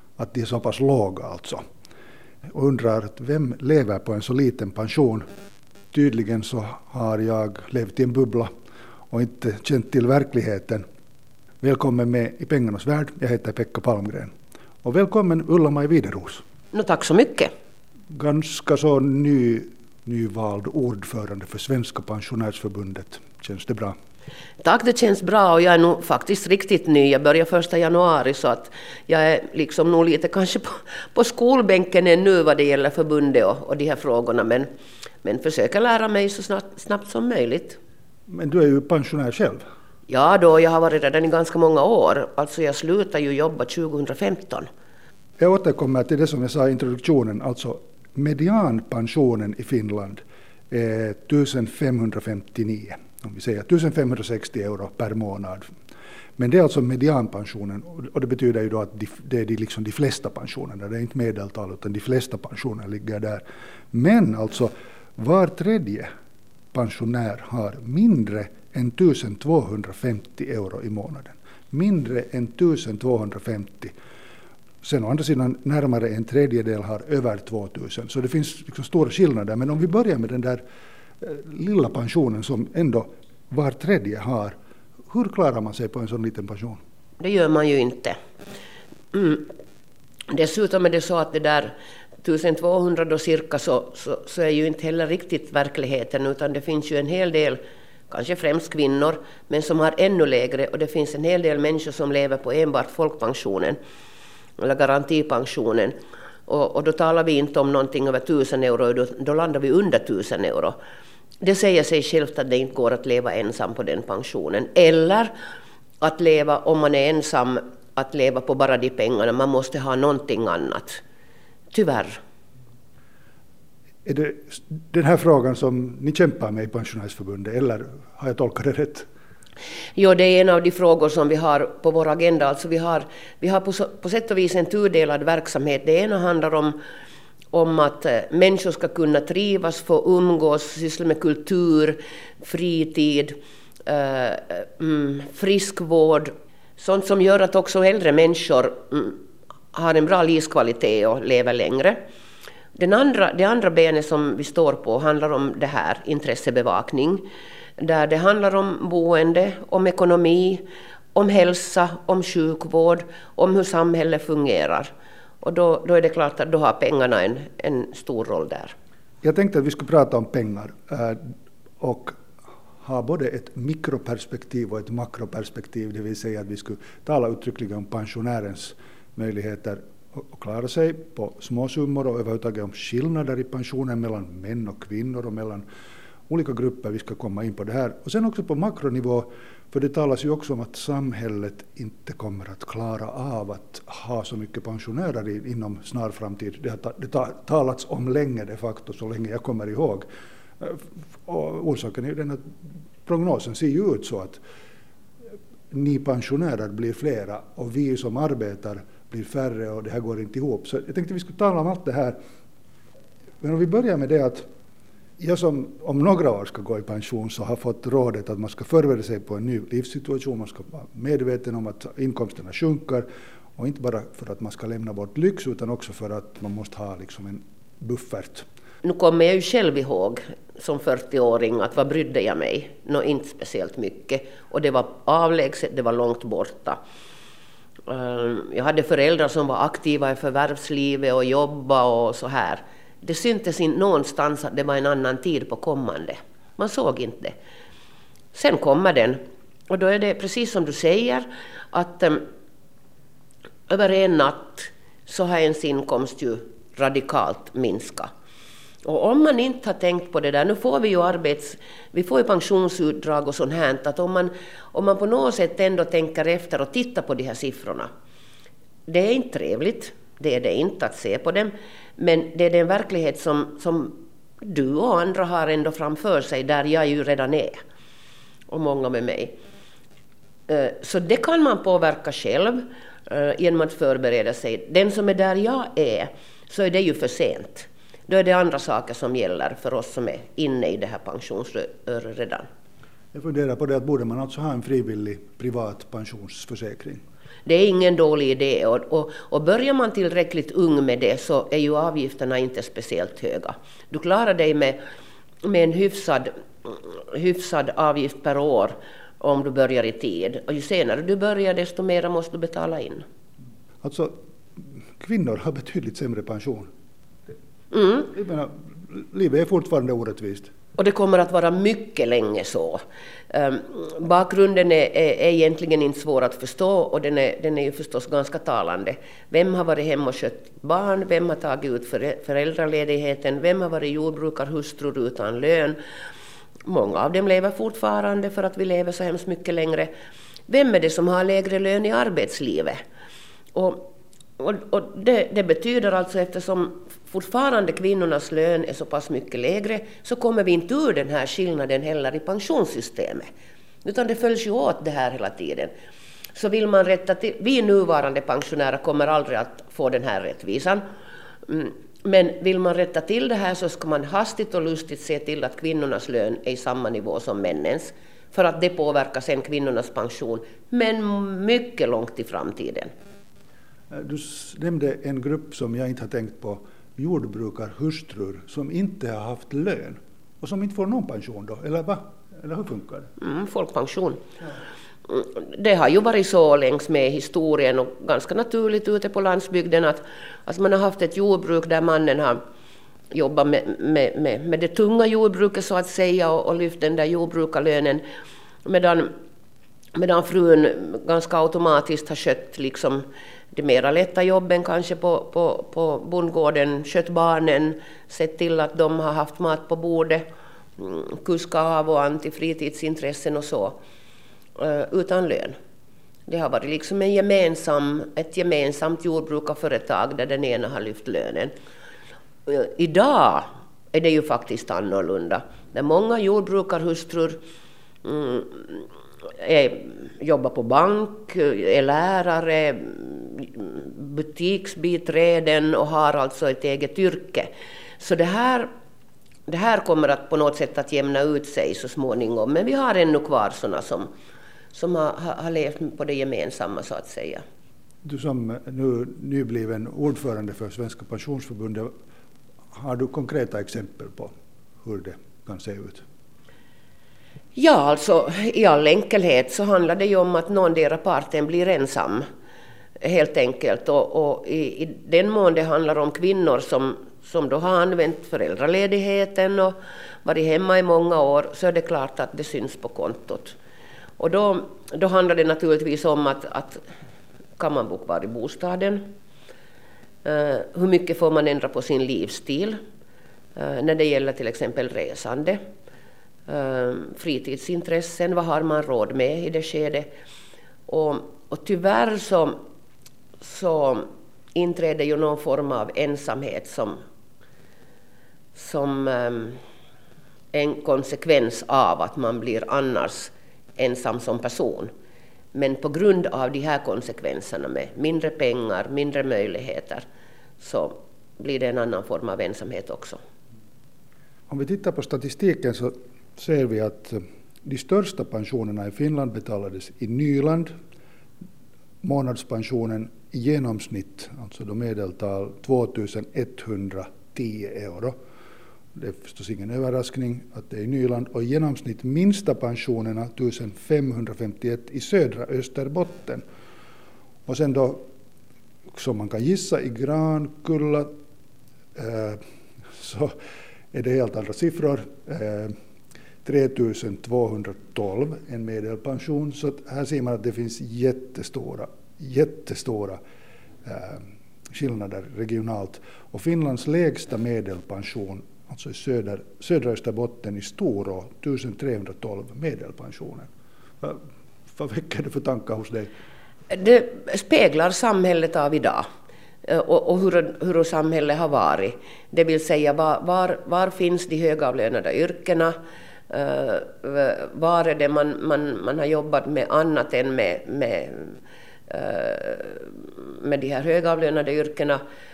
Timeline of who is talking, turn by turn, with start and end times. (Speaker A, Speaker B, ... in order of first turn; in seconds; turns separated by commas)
Speaker A: 0.2-1.6, Speaker A: 2.5-5.2, Speaker A: 5.9-8.5, Speaker A: 9.1-10.8, Speaker A: 11.6-14.3, Speaker A: 14.8-16.4, Speaker B: 16.7-17.5, Speaker A: 18.1-23.9, Speaker B: 24.6-34.7, Speaker B: 35.2-37.8, Speaker A: 38.3-39.6, Speaker B: 40.1-44.7, Speaker A: 45.4-55.7, Speaker A: 56.4-66.1, Speaker A: 66.7-73.9, Speaker A: 74.8-80.6, Speaker A: 81.2-84.5, Speaker A: 85.1-86.8, Speaker B: 87.2-88.2, Speaker B: 89.1-89.5, Speaker B: 90.3-103.8, Speaker B: 104.6-105.9, Speaker B: 106.5-110.8, Speaker B: 111.4-115.3, Speaker B: 116.0-121.0, Speaker B: 121.7-122.2, Speaker A: 124.0-129.1, Speaker B: 129.9-136.8, Speaker B: 137.5-149.2, Speaker B: 149.7-152.0, Speaker B: 152.7-157.2, Speaker B: 157.8-160.6, Speaker B: 161.1-164.9, Speaker B: 165.4-168.7, Speaker A: 169.2-171.2, Speaker A: 171.8-172.2, Speaker A: 172.8-185.6, Speaker A: 186.3-200.1, Speaker A: 200.6-202.4, Speaker A: 203.1-204.4, Speaker A: 205.7-212.2, Speaker A: 213.4-214.4, Speaker A: 215.2-223.1, Speaker A: 223.6-228.4, Speaker B: 228.8-236.8, Speaker B: 237.9-247.3, Speaker B: 248.3-252.2, Speaker B: 253.7-258.1, Speaker B: 258.8-267.9, Speaker B: 268.9-277.6, Speaker B: 278.5-279.3, Speaker B: 280.5-292.5, Speaker A: 293.1-297.0, Speaker B: 297.4-304.8, Speaker B: 305.4-313.0, Speaker A: 313.8-316.7, Speaker B: 317.7-318.1, Speaker A: 318.0-320.5, Speaker B: 320.8-335.8, Speaker B: 336.7-339.9, Speaker B: 340.5-342.8, Speaker B: 343.5-353.3, Speaker B: 353.8-355.7, Speaker B: 356.3-360.8, Speaker B: 361.5-372.9, Speaker A: 373.9-383.1, Speaker B: 383.2-384.2, Speaker B: 385.1-392.4, Speaker B: 393.1-398.0, Speaker B: 398.6-399.1, Speaker B: 399.9-410.2, Speaker B: 410.8-413.8, Speaker B: 414.6-415.5, Speaker B: 416.3-421.5, Speaker B: 422.5-427.4, Speaker B: 428.0-438.7, Speaker B: 439.5-444.1, Speaker B: 444.7-447.4, Speaker A: 448.0-451.9, Speaker A: 452.7-456.0, Speaker B: 457.5-462.2, Speaker B: 463.0-473.6, Speaker B: 474.2-476.8, Speaker B: 477.6-479.0, Speaker B: 480.2-482.8, Speaker B: 483.6-485.6, Speaker B: 486.5-490.1, Speaker B: 490.9-492.6, Speaker B: 493.4-497.0, Speaker B: 498.5-499.6, Speaker B: 500.5-504.9, Speaker B: 505.5-510.0, Speaker B: 510.6-513.2, Speaker A: 514.5-520.7, Speaker A: 522.0-528.1, Speaker A: 528.9-536.4, Speaker A: 537.5-538.0, Speaker A: 538.9-541.1, Speaker A: 541.9-542.4, Speaker A: 542.9-543.3, Speaker A: 543.9-545.7, Speaker A: 546.4-553.2, Speaker A: 553.8-563.5, Speaker A: 564.0-566.1, Speaker B: 566.7-569.0, Speaker B: 569.6-575.7, Speaker B: 576.3-585.0